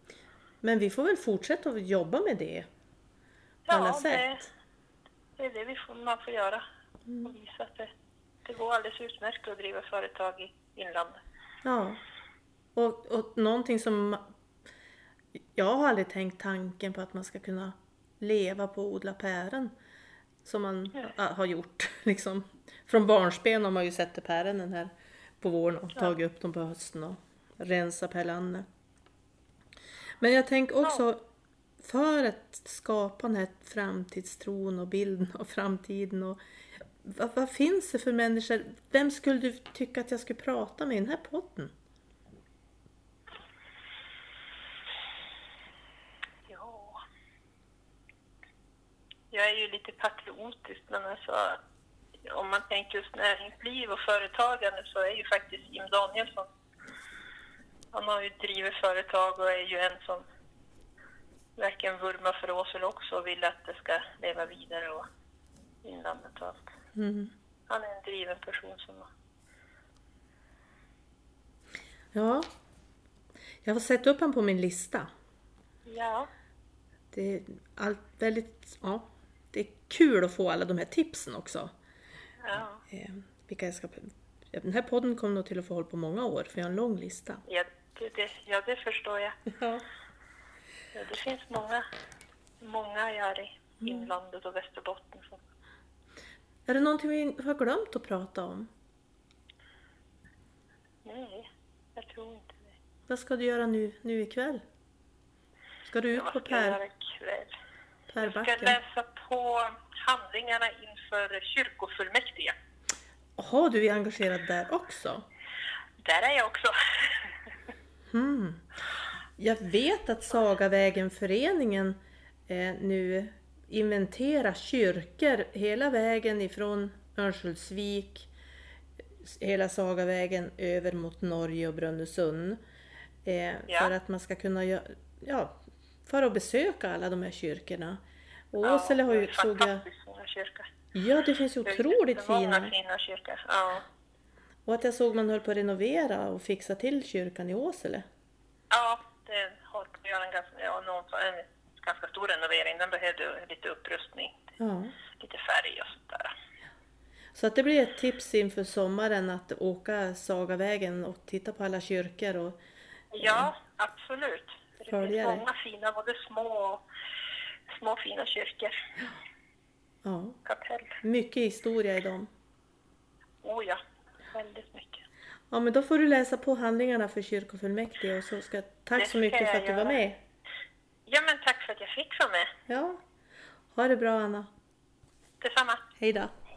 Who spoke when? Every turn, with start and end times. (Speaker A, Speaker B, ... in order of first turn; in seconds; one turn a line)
Speaker A: 0.6-2.7
Speaker B: 3.7-4.5
Speaker A: 3.7-4.5
Speaker B: 5.4-6.7
Speaker A: 7.1-7.3
Speaker B: 7.2-7.9
Speaker B: 8.4-11.2
Speaker A: 11.7-12.0
Speaker A: 12.8-14.3
Speaker A: 15.6-19.7
Speaker A: 20.4-28.7
Speaker A: 30.2-31.2
Speaker A: 31.8-36.4
Speaker A: 37.0-41.7
Speaker B: 46.5-47.0
Speaker B: 49.3-51.6
Speaker B: 52.2-56.5
Speaker B: 57.9-60.2
Speaker B: 61.6-65.1
Speaker B: 65.8-66.6
Speaker A: 67.0-67.3
Speaker B: 67.7-69.1
Speaker A: 72.1-72.5
Speaker A: 73.7-75.1
Speaker B: 75.8-76.3
Speaker A: 77.1-81.7
Speaker B: 82.4-82.8
Speaker A: 82.9-87.4
Speaker B: 87.5-89.4
Speaker A: 89.5-89.8
Speaker B: 90.9-91.9
Speaker B: 92.6-95.4
Speaker A: 93.8-94.1
Speaker A: 96.7-98.7
Speaker B: 101.0-102.8
Speaker A: 103.1-104.6
Speaker A: 105.8-106.8
Speaker B: 106.1-107.5
Speaker A: 108.1-108.8
Speaker B: 108.2-112.6
Speaker A: 113.4-115.3
Speaker B: 116.0-117.7
Speaker A: 118.1-118.7
Speaker A: 119.4-128.3
Speaker A: 129.2-132.6
Speaker A: 133.2-138.0
Speaker B: 133.7-133.9
Speaker A: 138.5-139.8
Speaker B: 138.6-140.7
Speaker A: 140.9-142.7
Speaker B: 141.7-143.9
Speaker A: 144.7-148.1
Speaker B: 148.7-154.5
Speaker A: 154.6-154.9
Speaker B: 155.1-156.3
Speaker A: 157.3-162.6
Speaker B: 163.1-166.8
Speaker A: 163.2-163.5
Speaker A: 164.9-165.4
Speaker B: 167.7-168.8
Speaker A: 170.1-170.4
Speaker B: 170.5-171.0
Speaker A: 171.0-172.3
Speaker B: 173.4-175.1
Speaker A: 175.5-180.2
Speaker B: 179.0-180.0
Speaker B: 181.1-182.5
Speaker A: 182.7-183.0
Speaker A: 183.7-184.5
Speaker B: 185.4-185.8
Speaker A: 186.0-186.3